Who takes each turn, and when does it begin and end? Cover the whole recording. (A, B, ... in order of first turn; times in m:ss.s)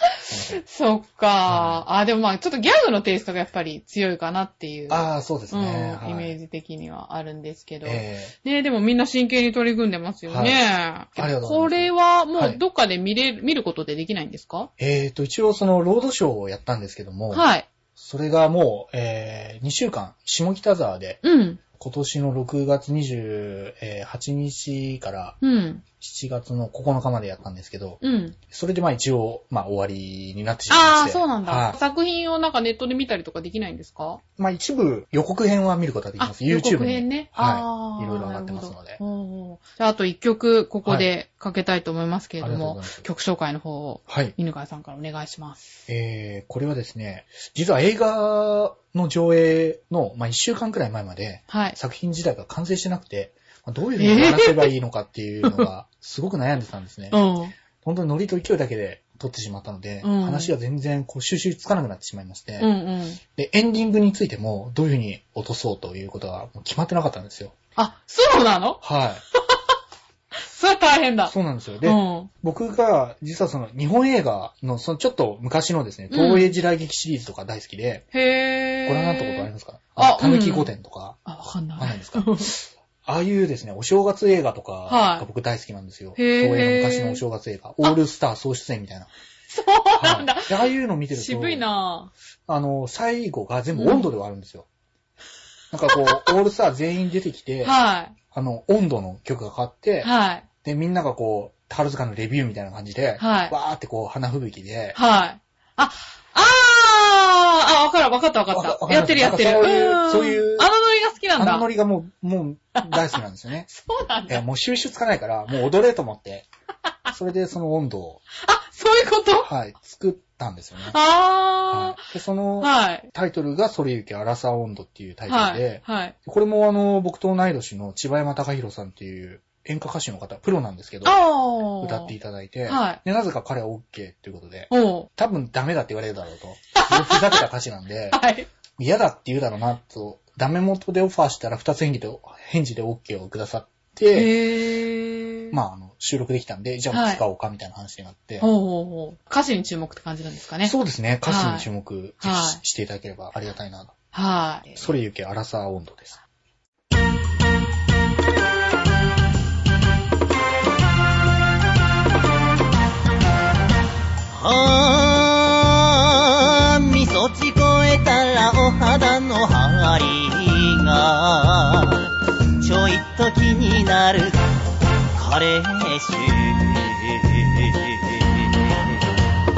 0:00.3-0:00.6 A
0:00.5-0:14.7 B
0:01.5-0:01.8 A
0:04.9-0:06.3 A
0:07.8-0:08.3 A
0:10.3-0:12.6 A
0:14.8-0:21.2 A
0:17.3-0:17.7 B
0:21.2-0:21.6 B
0:21.7-0:25.4 A
0:25.4-0:25.8 B
0:26.0-0:31.8 A
0:28.0-0:28.4 B
0:30.7-0:34.2 B
0:34.4-0:39.0 A
0:36.2-0:45.7 B
0:40.8-0:41.1 A
0:42.4-0:43.1 A
0:44.1-0:44.4 A
0:45.9-0:57.3 A
0:51.5-0:51.8 B
0:54.0-0:54.7 B
0:57.1-0:57.5 B
0:57.8-1:02.7 A
1:00.0-1:00.5 B
1:02.6-1:03.2 B
1:03.4-1:07.5 A
1:07.8-1:08.8 B
1:08.8-1:09.2 A
1:10.4-1:12.3 B
1:11.3-1:18.1 A
1:16.1-1:16.6 B
1:18.1-1:20.7 B
1:18.9-1:21.2 A
1:21.3-1:22.5 B
1:21.8-1:29.1 A
1:24.9-1:25.3 B
1:26.2-1:27.2 B
1:29.5-1:32.1 B
1:30.0-1:31.7 A
1:32.5-1:34.7 A
1:33.8-1:34.1 B
1:35.7-1:37.8 A
1:35.9-1:36.3 B
1:37.6-1:38.2 B
1:38.3-1:40.1 A
1:40.0-1:40.5 B
1:40.6-1:45.0 A
1:43.2-1:43.6 B
1:44.9-1:51.7 B
1:48.5-1:50.7 A
1:51.4-1:53.7 A
1:52.8-1:53.1 B
1:53.7-1:54.4 B
1:54.3-1:56.5 A
1:57.1-1:58.2 A
1:58.4-1:59.5 B
1:59.4-2:01.0 A
2:00.8-2:02.1 B
2:01.7-2:11.2 A
2:02.6-2:03.1 B
2:05.3-2:06.2 B
2:11.0-2:12.1 B
2:11.8-2:18.2 A
2:12.7-2:13.0 B
2:14.7-2:15.1 B
2:16.8-2:17.4 B
2:18.1-2:18.5 B
2:18.8-2:24.4 A
2:24.1-2:25.6 B
2:25.5-2:28.5 A
2:26.9-2:27.2 B
2:28.4-2:31.7 B
2:30.6-2:34.0 A
2:32.2-2:32.6 B
2:34.1-2:34.9 B
2:34.8-2:36.2 A
2:44.3-2:52.1 C
2:52.6-2:54.4 C
2:55.2-2:59.1 C